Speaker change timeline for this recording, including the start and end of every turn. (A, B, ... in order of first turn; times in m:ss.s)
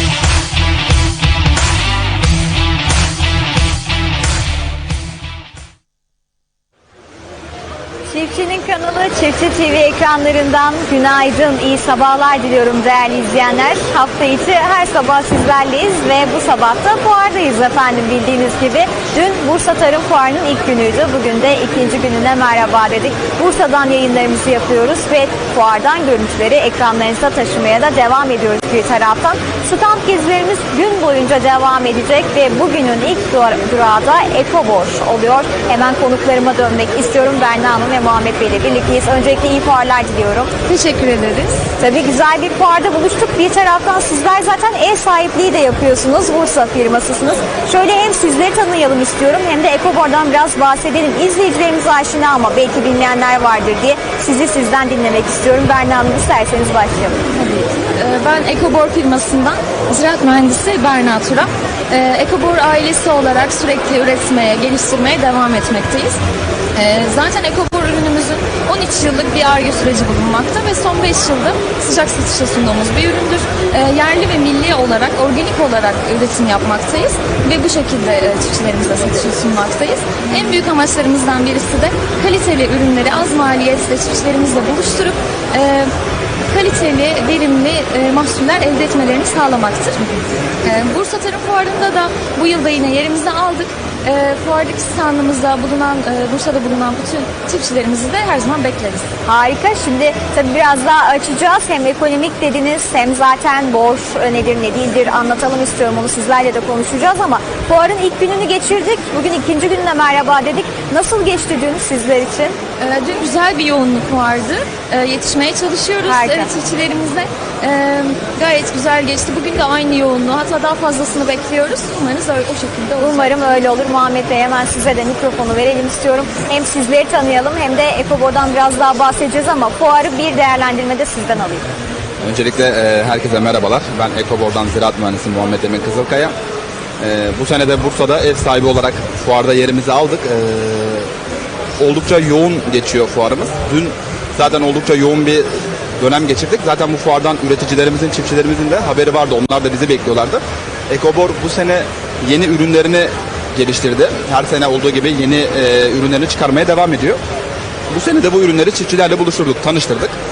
0:08.1-0:40.5 A
0:40.6-0:41.6 B
0:41.8-0:57.2 A
0:57.3-1:06.2 B
1:06.7-1:25.9 B
1:26.5-1:39.1 B
1:39.2-1:52.6 A
1:52.8-2:03.6 B
1:56.0-1:56.5 A
2:03.0-2:11.7 A
2:12.2-2:16.3 C
2:17.0-2:21.1 C
2:21.8-2:37.2 C
2:37.9-2:40.2 C